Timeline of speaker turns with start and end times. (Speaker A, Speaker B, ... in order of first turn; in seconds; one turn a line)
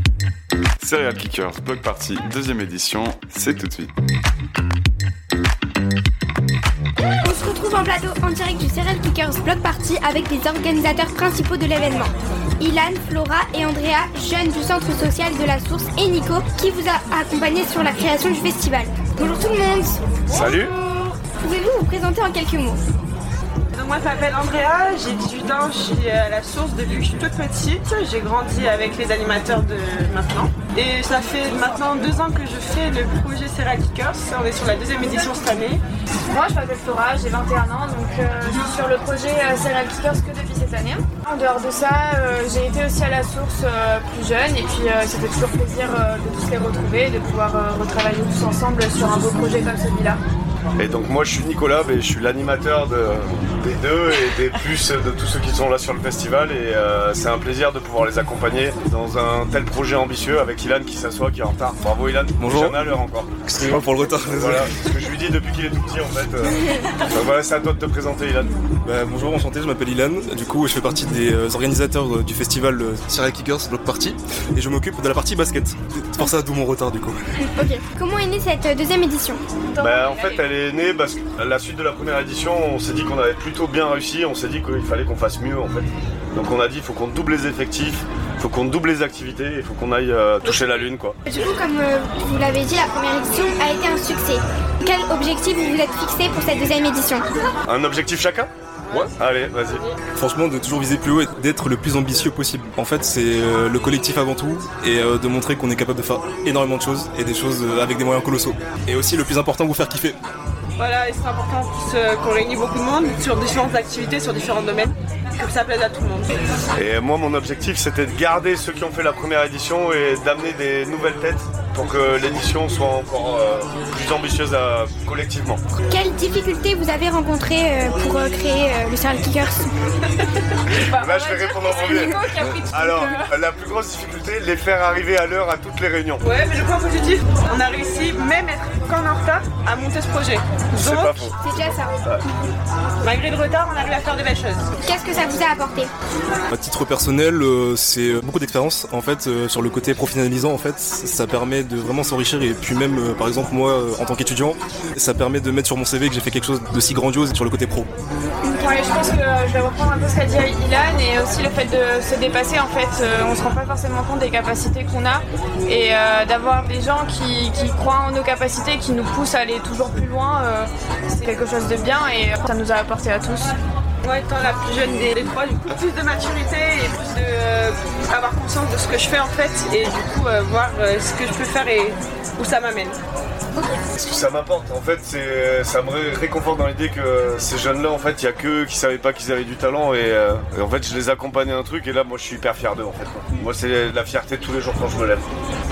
Speaker A: 0.8-3.9
Speaker B: 7.2-22.8
Speaker C: 20.3-20.7
Speaker D: 23.7-35.8
Speaker E: 36.3-50.2
Speaker C: 50.8-63.4
Speaker F: 62.4-62.9
Speaker F: 63.5-64.7
Speaker C: 64.3-68.6
Speaker F: 68.8-77.2
Speaker B: 77.5-79.4
Speaker D: 79.8-80.4
Speaker C: 79.8-91.2
Speaker D: 90.4-90.8
Speaker B: 91.3-97.3
Speaker C: 97.7-98.5
Speaker C: 99.1-99.8
Speaker D: 99.7-100.0
Speaker F: 100.2-110.2
Speaker D: 110.8-116.4
Speaker C: 116.8-125.6
Speaker B: 125.9-129.7
Speaker E: 130.7-133.3
Speaker C: 130.9-136.2
Speaker D: 136.2-141.2
Speaker C: 140.7-142.2
Speaker B: 141.2-141.9
Speaker D: 143.0-144.8
Speaker B: 144.8-145.9
Speaker F: 146.5-157.9
Speaker E: 158.5-173.6
Speaker D: 174.0-183.0
Speaker B: 183.6-183.8
Speaker C: 183.9-195.3